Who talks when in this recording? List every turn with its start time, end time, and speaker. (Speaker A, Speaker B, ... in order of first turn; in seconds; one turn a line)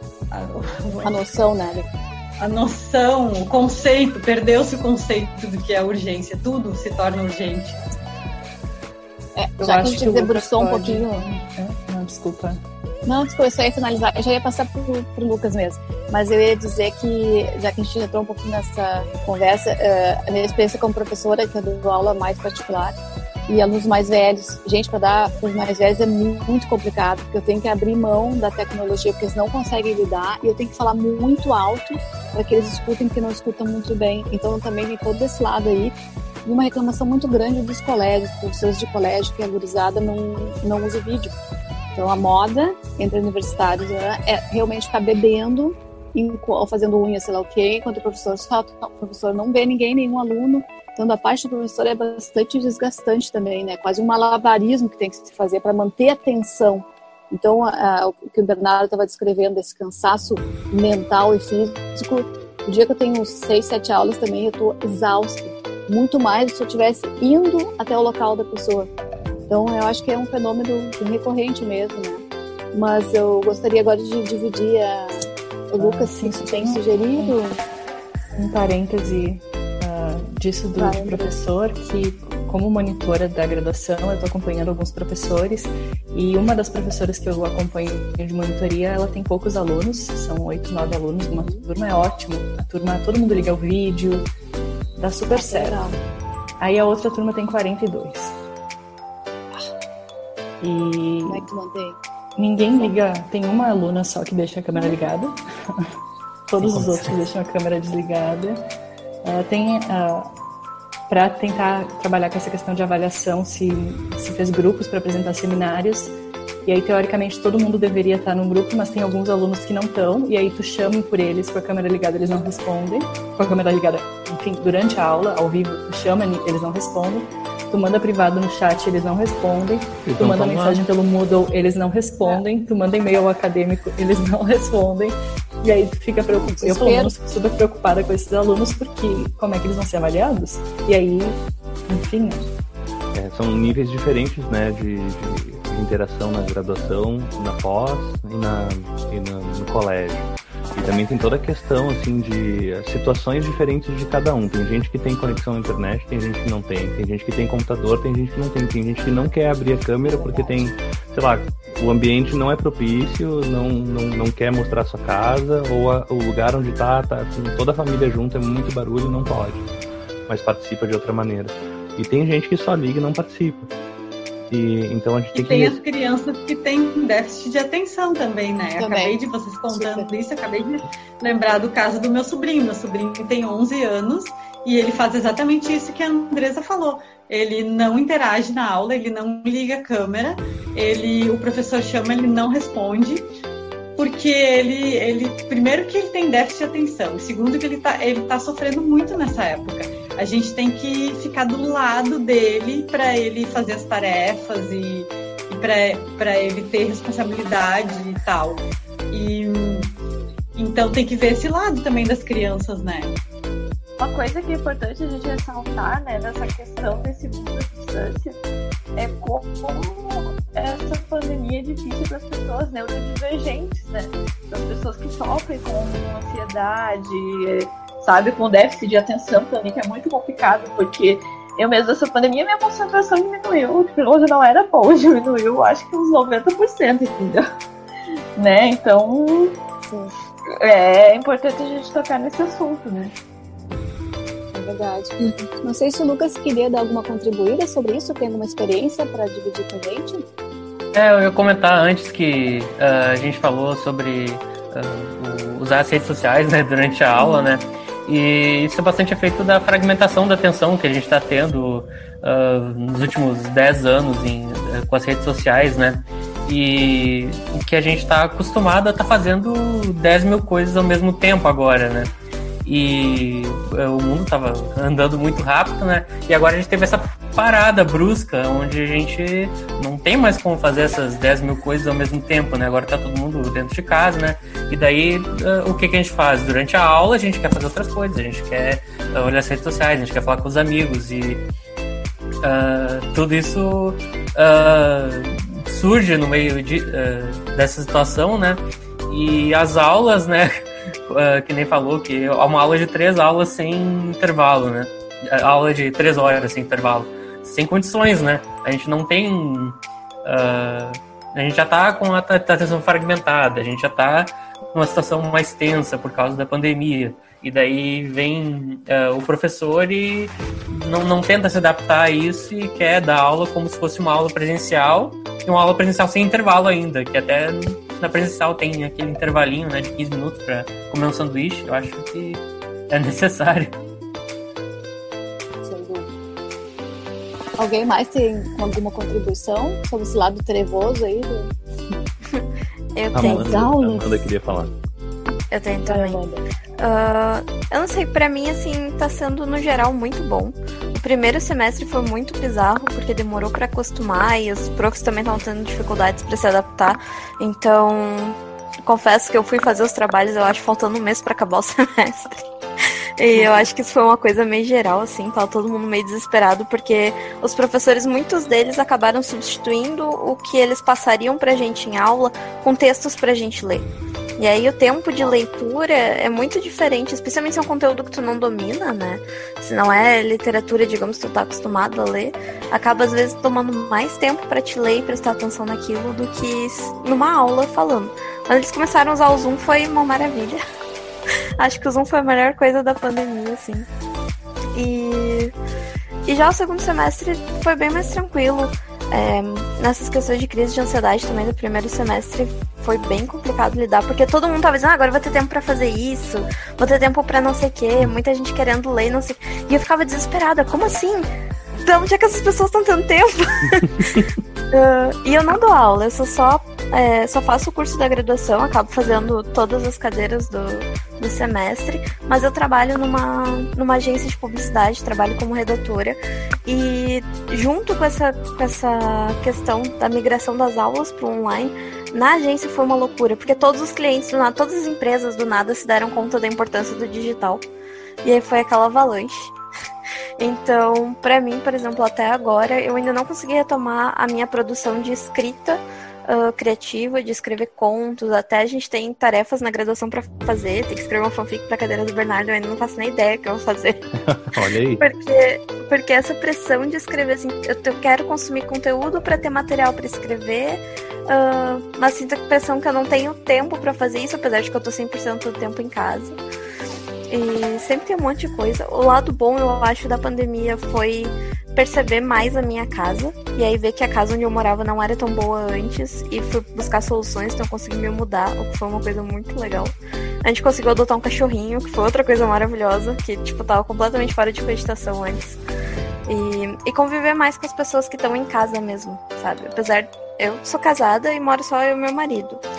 Speaker A: 0.3-1.3
Speaker B: 1.0-1.9
Speaker A: 2.4-7.8
Speaker B: 9.3-11.2
Speaker C: 9.6-12.6
Speaker B: 13.1-22.9
Speaker B: 23.5-41.3
Speaker B: 42.0-68.9
Speaker B: 69.5-72.2
Speaker B: 72.7-77.6
Speaker C: 75.8-77.3
Speaker C: 78.3-94.3
Speaker B: 80.8-81.3
Speaker B: 91.3-91.7
Speaker C: 95.0-95.8
Speaker B: 95.3-96.0
Speaker C: 96.6-98.4
Speaker C: 100.6-101.5
Speaker B: 101.3-102.0
Speaker C: 102.3-105.8
Speaker C: 106.5-108.6
Speaker D: 106.6-107.1
Speaker C: 109.2-110.3
Speaker C: 111.1-142.5
Speaker E: 130.0-130.8
Speaker B: 136.3-137.1
Speaker E: 143.1-169.7
Speaker B: 160.0-160.7
Speaker E: 170.3-173.7
Speaker E: 174.5-175.8
Speaker A: 175.3-193.3
Speaker B: 178.8-179.2
Speaker B: 179.7-180.1
Speaker A: 194.0-209.9
Speaker A: 210.6-213.2
Speaker F: 214.0-218.4
Speaker F: 218.9-237.4
Speaker F: 238.3-239.6
Speaker B: 239.8-240.1
Speaker F: 240.6-243.1
Speaker B: 244.5-250.2
Speaker D: 250.9-272.1
Speaker B: 257.1-257.5
Speaker D: 272.6-291.4
Speaker D: 292.4-333.8
Speaker B: 335.6-336.1
Speaker B: 337.6-341.5
Speaker G: 342.9-343.6
Speaker E: 343.1-344.7
Speaker B: 343.1-344.3
Speaker G: 345.5-346.2
Speaker B: 345.9-346.4
Speaker G: 346.8-362.4
Speaker G: 363.2-390.6
Speaker B: 363.3-363.6
Speaker G: 391.6-393.9
Speaker G: 394.7-395.5
Speaker G: 396.2-411.3
Speaker G: 411.8-437.6
Speaker G: 438.2-439.5
Speaker G: 440.4-466.4
Speaker E: 454.1-455.0
Speaker G: 467.3-485.6
Speaker G: 486.3-492.6